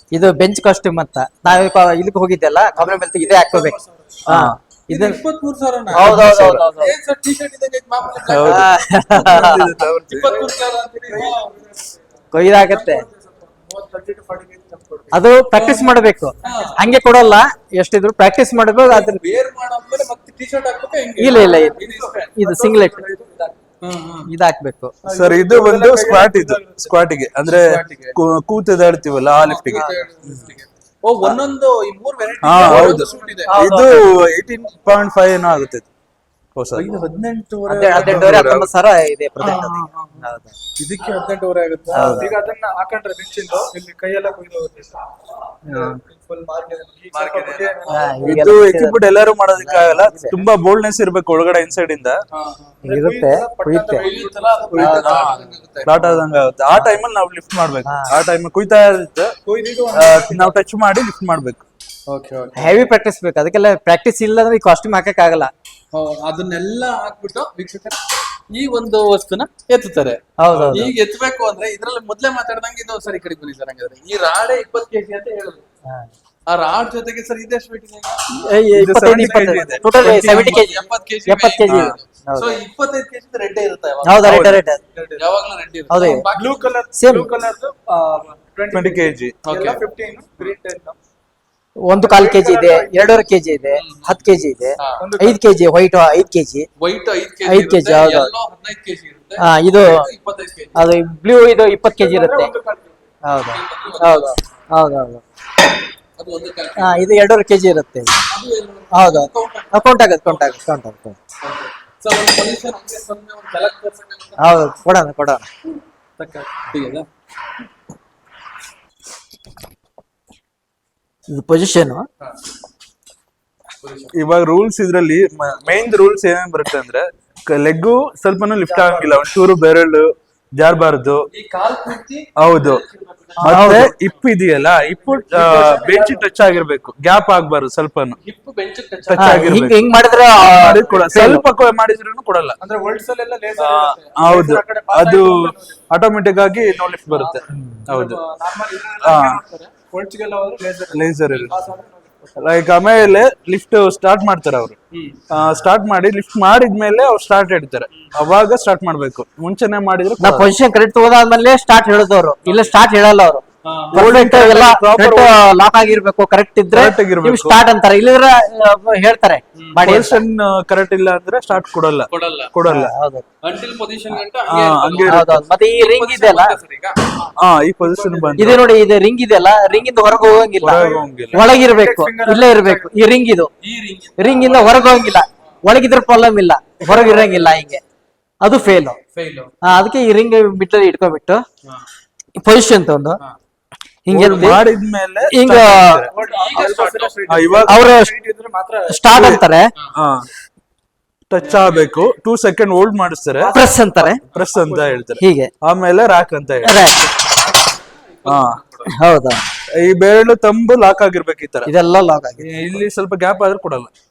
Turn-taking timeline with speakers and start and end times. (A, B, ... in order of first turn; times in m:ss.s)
0:00.1-0:05.2 A
0:02.8-0:04.2 B
0:04.3-0:04.6 C
0:04.9-0:08.8 D
0:05.9-0:06.9 A
0:06.0-0:06.6 C
0:08.2-0:10.3 C
0:08.4-0:09.7 A
0:09.4-0:11.4 D
0:10.2-0:15.8 B
0:12.3-0:13.0 A
0:15.1-0:19.2 A
0:15.6-0:16.8 D
0:16.4-0:17.0 B
0:18.9-0:22.3 D
0:21.2-0:21.8 A
0:21.3-0:23.6 B
0:22.4-0:23.0 A
0:23.8-0:24.3 D
0:24.3-0:25.0 A
0:25.0-0:27.0 B
0:25.1-0:30.4 C
0:27.5-0:28.2 D
0:29.4-0:33.8 D
0:29.9-0:30.5 B
0:32.4-0:35.9 C
0:32.5-0:34.3 B
0:36.6-0:36.9 C
0:36.7-0:38.5 D
0:37.7-0:40.6 A
0:37.8-0:38.7 C
0:39.4-0:40.2 D
0:40.8-0:42.3 D
0:41.9-0:48.2 B
0:41.9-0:42.4 A
0:47.1-0:48.2 D
0:47.9-0:50.4 A
0:48.2-0:52.2 C
0:52.3-0:52.7 D
0:52.8-0:54.1 A
0:52.8-0:55.6 B
0:54.0-0:56.2 D
0:54.7-0:59.4 C
0:57.9-0:58.1 A
0:59.4-1:00.6 B
0:59.9-1:01.6 C
1:02.1-1:02.8 D
1:02.6-1:05.5 A
1:05.9-1:08.0 D
1:08.5-1:15.6 D
1:10.4-1:10.9 A
1:16.5-1:18.2 D
1:18.4-1:22.6 A
1:18.7-1:20.4 C
1:19.1-1:20.6 B
1:19.9-1:24.5 D
1:21.7-1:22.0 C
1:24.0-1:24.8 A
1:24.2-1:24.6 C
1:25.0-1:25.2 B
1:25.2-1:26.7 D
1:25.9-1:26.2 A
1:26.3-1:31.0 B
1:27.0-1:27.3 A
1:28.7-1:29.4 C
1:29.4-1:29.8 D
1:31.8-1:36.7 A
1:32.0-1:33.3 B
1:33.7-1:34.2 D
1:34.8-1:35.1 D
1:35.0-1:35.4 B
1:36.8-1:40.9 D
1:37.5-1:38.3 A
1:39.4-1:40.1 A
1:40.8-1:42.5 A
1:41.9-1:43.0 B
1:43.2-1:45.2 A
1:43.5-1:44.4 D
1:46.2-1:47.1 D
1:46.8-1:48.2 A
1:48.3-1:50.5 D
1:48.9-1:51.2 A
1:51.4-1:54.6 D
1:54.4-1:55.5 A
1:56.2-1:57.1 D
2:01.3-2:02.1 A
2:03.8-2:04.2 D
2:04.1-2:11.3 C
2:08.7-2:09.2 B
2:11.3-2:13.9 D
2:12.4-2:12.8 C
2:13.4-2:13.9 A
2:13.4-2:18.2 C
2:14.6-2:16.3 B
2:18.2-2:19.8 D
2:19.0-2:19.9 C
2:19.2-2:21.4 A
2:20.5-2:22.6 C
2:22.6-2:25.8 B
2:23.6-2:28.2 C
2:26.5-2:32.3 B
2:27.5-2:27.8 A
2:29.0-2:29.4 C
2:30.9-2:31.6 C
2:32.4-2:34.8 C
2:34.9-2:35.2 D
2:35.3-2:40.5 C
2:40.2-2:50.2 A
2:42.4-2:42.8 D
2:43.6-2:44.0 D
2:43.9-2:45.3 C
2:46.7-2:47.6 C
2:49.6-2:49.9 D
2:49.8-2:52.9 C
2:52.1-2:52.5 D
2:52.7-2:53.2 A
2:53.4-2:57.0 D
2:54.5-2:55.4 C
2:55.1-2:56.6 A
2:57.2-2:58.6 B
2:57.4-2:58.7 C
2:58.4-3:03.5 A
3:00.6-3:01.4 C
3:00.6-3:03.0 B
3:03.6-3:05.1 D
3:04.2-3:07.8 A
3:06.8-3:07.5 B
3:08.4-3:09.0 A
3:09.1-3:09.5 D
3:09.6-3:11.4 A
3:12.4-3:13.2 A
3:14.0-3:14.7 A
3:14.1-3:16.1 C
3:15.3-3:16.0 A
3:16.0-3:19.3 B
3:16.2-3:17.5 D
3:17.3-3:17.8 C
3:17.7-3:18.1 A
3:18.9-3:19.7 A
3:19.1-3:19.4 C
3:19.9-3:20.3 C
3:21.3-3:23.6 C
3:21.4-3:22.0 D
3:23.4-3:25.1 B
3:23.5-3:24.2 A
3:24.3-3:26.8 C
3:25.2-3:25.5 A
3:26.6-3:27.2 A
3:28.1-3:28.9 D
3:28.3-3:28.6 C
3:28.9-3:29.5 A
3:29.7-3:31.7 C
3:31.7-3:32.8 A
3:32.4-3:33.9 C